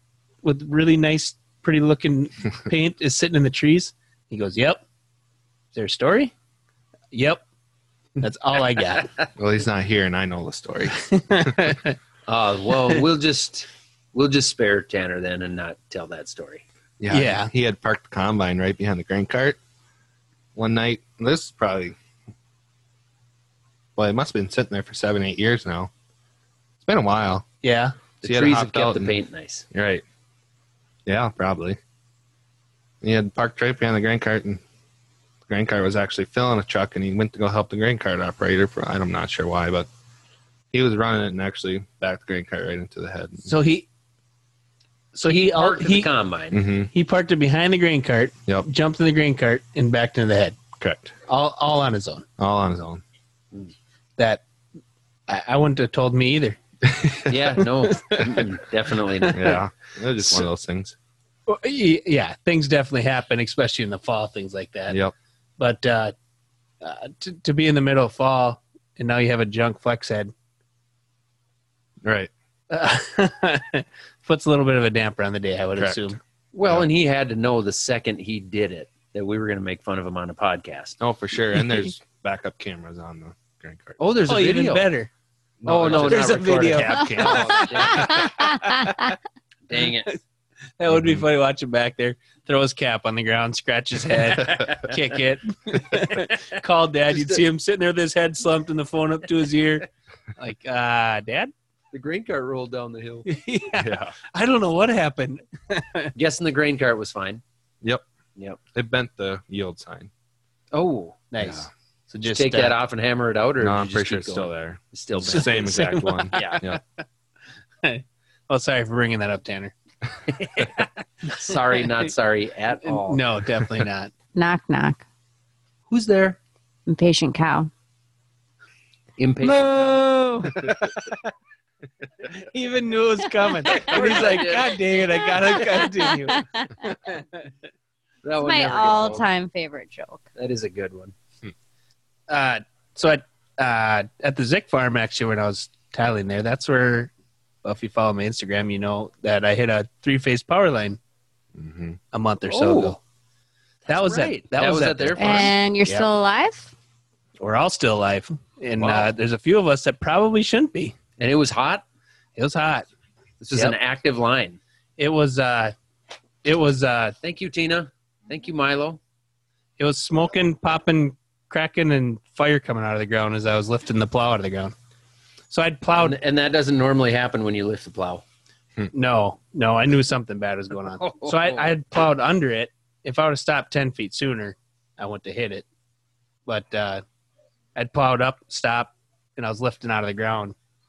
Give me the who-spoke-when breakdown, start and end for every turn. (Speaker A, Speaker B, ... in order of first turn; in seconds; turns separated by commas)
Speaker A: 0.4-4.8, Speaker A: 5.7-6.3, Speaker A: 7.1-7.4, Speaker A: 8.2-9.1, Speaker B: 9.4-11.6, Speaker A: 11.0-12.0, Speaker C: 12.3-16.6, Speaker B: 17.0-19.6, Speaker A: 17.1-17.5, Speaker B: 20.6-22.0, Speaker B: 24.0-25.9, Speaker B: 26.8-27.5, Speaker A: 27.6-28.0, Speaker C: 28.2-29.6, Speaker B: 28.2-29.1, Speaker B: 29.7-30.0, Speaker B: 31.1-31.8, Speaker B: 33.0-34.6, Speaker B: 35.5-39.9, Speaker B: 40.7-43.5, Speaker A: 43.5-43.9, Speaker A: 45.1-46.1, Speaker C: 45.3-46.6, Speaker B: 46.5-46.9, Speaker A: 46.9-50.6, Speaker B: 50.8-51.2, Speaker A: 51.3-52.3, Speaker B: 52.4-53.0, Speaker A: 54.2-54.4, Speaker A: 55.3-56.6, Speaker B: 56.9-57.3, Speaker C: 57.3-59.5, Speaker A: 57.8-58.5, Speaker A: 59.2-59.6, Speaker B: 59.3-61.0, Speaker A: 61.5-65.0, Speaker A: 65.6-66.1, Speaker A: 66.8-70.3, Speaker B: 72.0-72.3, Speaker A: 72.7-76.2, Speaker B: 75.8-76.1, Speaker C: 76.5-81.0, Speaker B: 81.0-84.0, Speaker C: 84.0-84.9, Speaker A: 84.3-85.1, Speaker B: 85.6-86.7, Speaker C: 85.7-88.4, Speaker A: 85.8-89.1, Speaker C: 89.7-90.2, Speaker A: 90.8-101.5, Speaker B: 90.9-91.2, Speaker C: 94.5-95.1, Speaker C: 97.1-97.4, Speaker C: 101.9-103.3, Speaker A: 103.3-106.1, Speaker B: 103.8-104.2, Speaker C: 106.2-107.4, Speaker B: 108.7-110.1, Speaker C: 110.7-111.2, Speaker A: 111.3-112.8, Speaker B: 111.4-111.7, Speaker C: 112.3-115.7, Speaker B: 113.6-116.8, Speaker A: 115.3-116.8, Speaker C: 116.3-116.6, Speaker A: 117.8-119.7, Speaker C: 120.5-123.2, Speaker A: 121.5-122.0, Speaker A: 122.8-124.1, Speaker D: 124.3-125.0, Speaker C: 125.9-126.4, Speaker D: 126.9-127.7, Speaker C: 129.2-130.0, Speaker A: 129.4-131.2, Speaker A: 132.2-136.4, Speaker C: 133.7-134.8, Speaker D: 135.5-136.9, Speaker C: 138.2-139.3, Speaker D: 138.4-140.2, Speaker C: 140.4-141.1, Speaker A: 142.3-147.1, Speaker A: 147.6-151.0, Speaker B: 151.6-152.0, Speaker A: 152.1-153.0, Speaker C: 152.5-153.0, Speaker C: 153.8-155.5, Speaker A: 153.9-156.1, Speaker D: 155.2-156.7, Speaker A: 157.4-160.9, Speaker C: 158.8-159.1, Speaker C: 161.2-161.8, Speaker A: 162.4-162.9, Speaker C: 163.4-164.6, Speaker A: 165.0-165.7, Speaker A: 166.4-167.2, Speaker C: 167.2-169.0, Speaker A: 169.8-174.7, Speaker A: 175.5-176.2, Speaker C: 176.0-178.2, Speaker A: 178.9-185.7, Speaker C: 180.9-181.7, Speaker A: 186.5-187.0, Speaker A: 187.8-190.6